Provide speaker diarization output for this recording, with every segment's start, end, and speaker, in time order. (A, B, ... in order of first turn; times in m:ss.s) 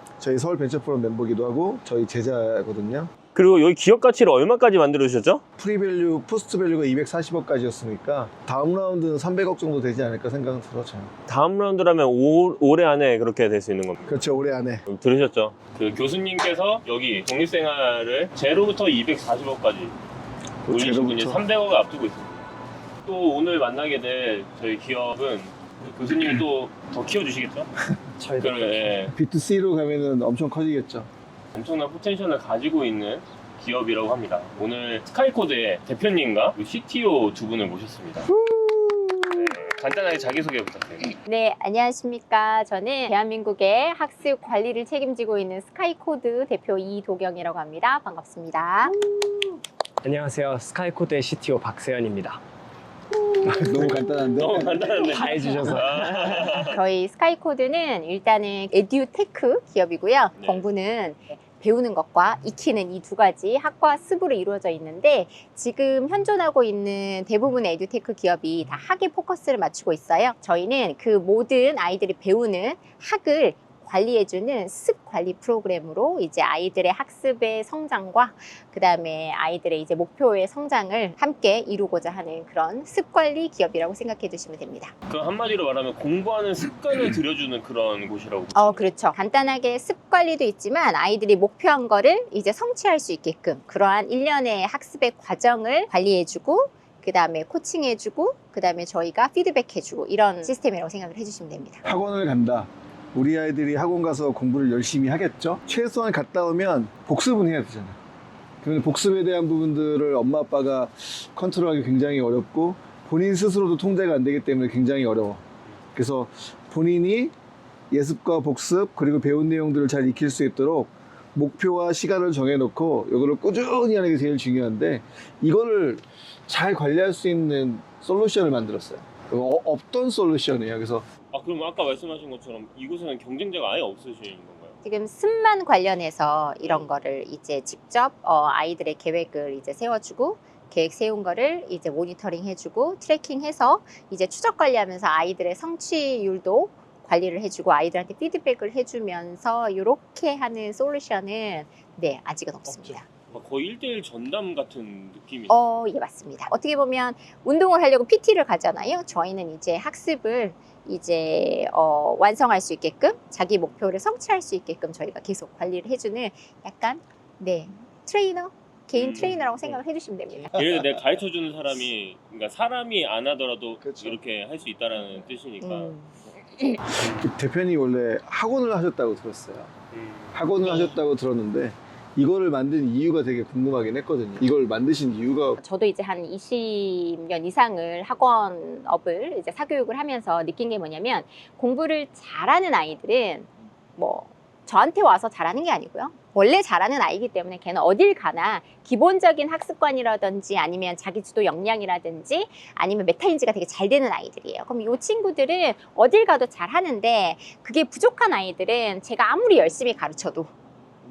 0:00.2-0:03.1 A
0:03.4-0:05.4 B
0:05.6-0:11.1 A
0:11.3-0:14.2 B
0:14.1-0:14.8 A
0:14.9-0:20.0 B
0:20.6-0:21.4 A
0:20.7-0:22.5 B
0:23.0-0:27.7 B
0:28.2-0:29.0 C
0:28.4-0:29.1 B
0:29.1-0:31.1 A
0:31.5-0:38.3 B
0:38.6-0:39.0 A
0:39.3-0:41.2 B
0:41.2-0:49.0 D
0:50.0-0:52.4 C
0:53.1-0:54.0 D
0:53.4-0:54.2 C
0:53.5-0:55.1 A
0:53.9-0:56.8 B
0:55.0-0:56.6 C
0:56.6-1:24.9 D
1:00.4-1:00.7 B
1:25.1-1:28.9 B
1:28.5-1:41.8 D
1:41.8-1:48.0 A
1:48.6-1:55.4 A
1:56.0-1:57.3 A
1:57.9-2:11.0 A
2:11.3-2:14.8 B
2:14.8-2:33.1 D
2:33.3-2:35.6 B
2:35.5-2:50.6 D
2:48.9-2:49.4 B
2:50.5-2:55.9 B
2:53.8-2:54.2 A
2:55.6-2:56.8 D
2:57.0-2:57.3 B
2:57.0-2:59.7 A
2:59.9-3:00.3 B
3:00.3-3:05.6 A
3:00.6-3:01.0 D
3:05.6-3:30.5 D